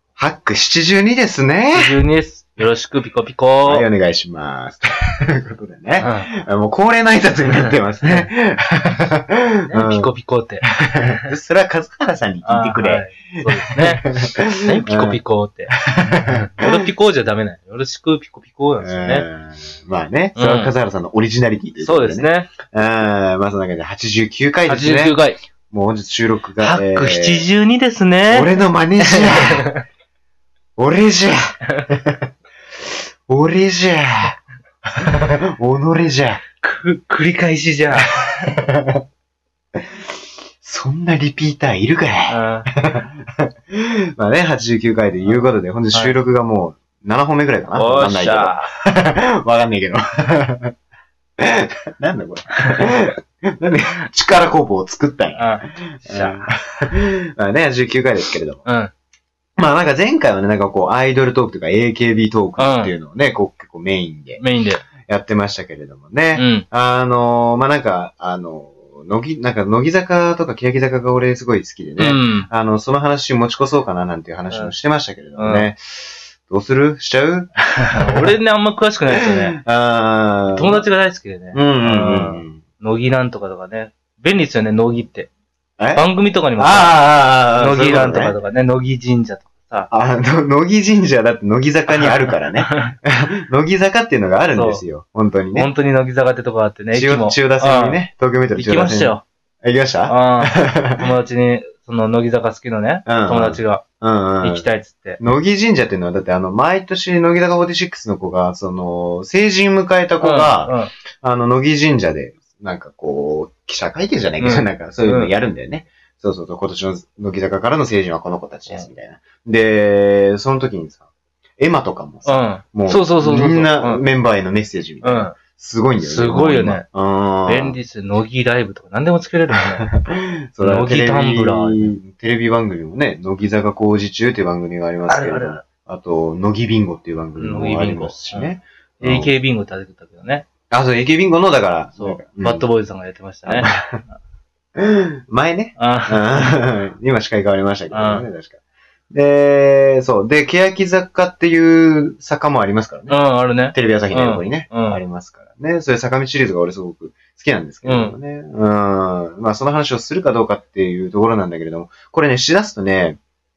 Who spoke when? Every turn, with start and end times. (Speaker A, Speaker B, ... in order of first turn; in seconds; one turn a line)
Speaker A: 0.2-2.0
Speaker B: 1.7-3.9
Speaker A: 3.6-10.1
Speaker B: 6.0-6.3
Speaker B: 7.5-8.3
Speaker B: 9.7-11.2
Speaker A: 10.8-15.2
Speaker B: 12.4-19.2
Speaker A: 16.0-16.7
Speaker A: 18.8-25.2
Speaker B: 20.4-20.7
Speaker B: 21.8-22.5
Speaker B: 24.7-25.4
Speaker A: 25.7-27.5
Speaker B: 26.6-29.8
Speaker A: 28.3-29.7
Speaker A: 30.8-32.3
Speaker A: 33.3-34.4
Speaker A: 35.0-36.4
Speaker B: 36.6-38.5
Speaker A: 38.5-39.0
Speaker A: 40.6-50.7
Speaker B: 42.3-42.7
Speaker B: 45.2-46.1
Speaker B: 47.7-48.7
Speaker A: 51.4-58.6
Speaker B: 55.4-56.4
Speaker B: 58.6-58.9
Speaker A: 59.6-64.4
Speaker B: 62.6-62.9
Speaker B: 64.4-64.8
Speaker A: 65.1-77.5
Speaker B: 66.3-66.7
Speaker B: 72.0-72.5
Speaker B: 75.4-75.7
Speaker B: 77.9-79.6
Speaker A: 79.5-80.9
Speaker B: 80.5-85.3
Speaker A: 81.5-82.6
Speaker A: 85.8-88.4
Speaker B: 85.9-89.9
Speaker A: 89.9-95.7
Speaker B: 91.9-92.9
Speaker B: 94.5-94.8
Speaker B: 95.5-98.0
Speaker A: 96.9-101.1
Speaker B: 98.5-99.2
Speaker B: 100.1-103.8
Speaker A: 103.0-104.7
Speaker B: 104.4-105.2
Speaker A: 105.2-121.0
Speaker B: 110.2-110.9
Speaker B: 114.4-115.3
Speaker A: 121.6-127.8
Speaker B: 122.2-124.0
Speaker B: 125.0-125.3
Speaker B: 126.0-126.8
Speaker B: 127.5-129.9
Speaker A: 129.8-139.3
Speaker B: 130.6-131.9
Speaker B: 135.1-135.6
Speaker B: 137.4-140.4
Speaker A: 140.7-142.7
Speaker B: 142.0-144.2
Speaker A: 143.4-144.0
Speaker A: 144.8-148.6
Speaker B: 145.8-146.6
Speaker B: 147.9-148.3
Speaker A: 149.1-153.2
Speaker B: 153.1-155.0
Speaker A: 153.7-163.2
Speaker B: 157.8-158.2